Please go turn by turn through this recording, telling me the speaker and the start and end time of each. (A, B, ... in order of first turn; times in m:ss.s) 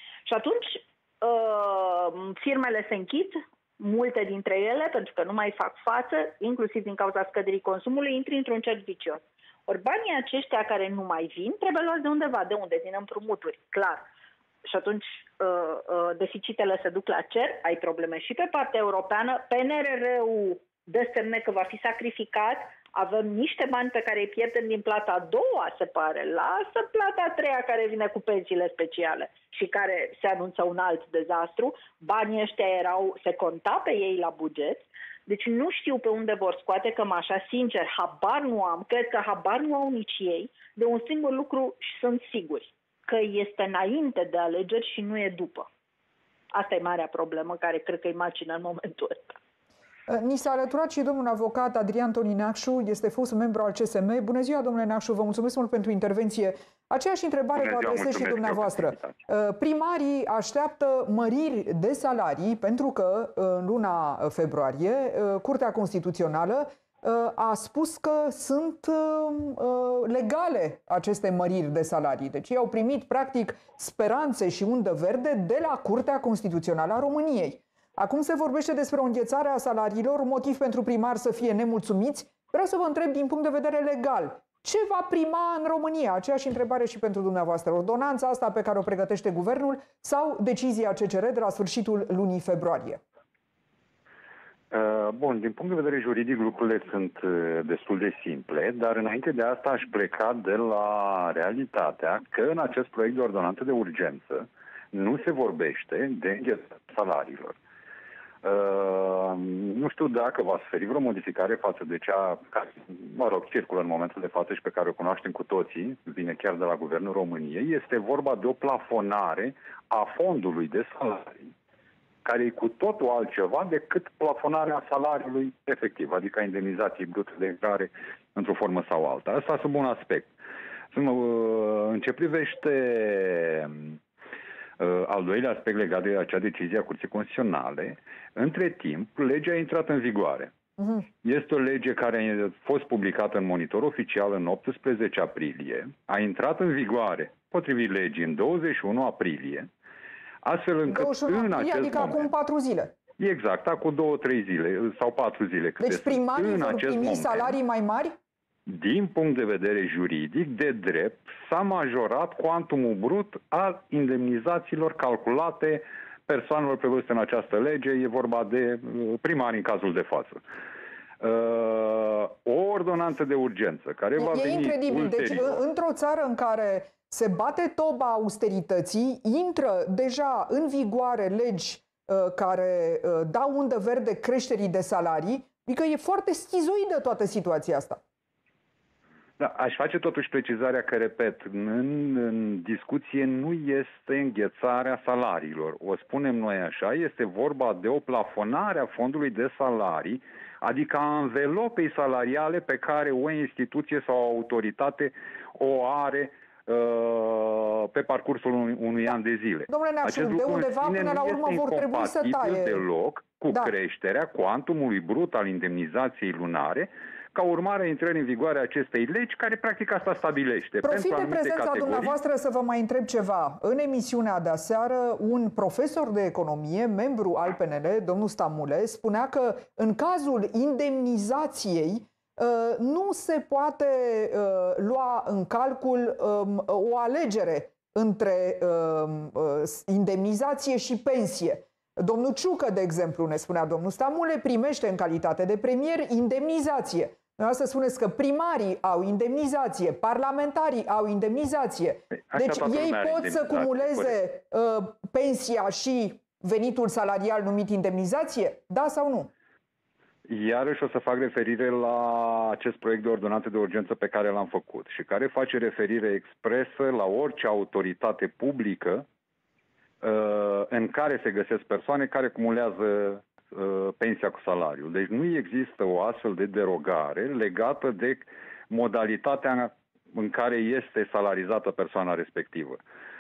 0:00.3-0:14.0 A
0:14.6-0:45.7 A
0:46.5-0:49.4 A
0:50.1-1:33.0 B
0:57.6-0:59.2 C
1:34.7-1:47.6 C
1:48.4-2:01.4 C
2:02.2-2:10.3 C
2:10.9-2:14.0 C
2:14.8-2:20.5 C
2:21.2-2:29.7 C
2:30.4-2:32.3 C
2:30.9-2:32.9 B
2:33.2-2:37.6 C
2:35.8-2:38.2 B
2:38.7-2:50.4 C
2:51.2-2:55.6 C
2:54.2-3:08.0 B
3:09.4-3:42.1 C
3:29.7-3:32.8 B
3:40.8-4:19.3 B
4:12.3-4:14.2 C
4:20.3-4:29.0 C
4:30.0-4:42.8 C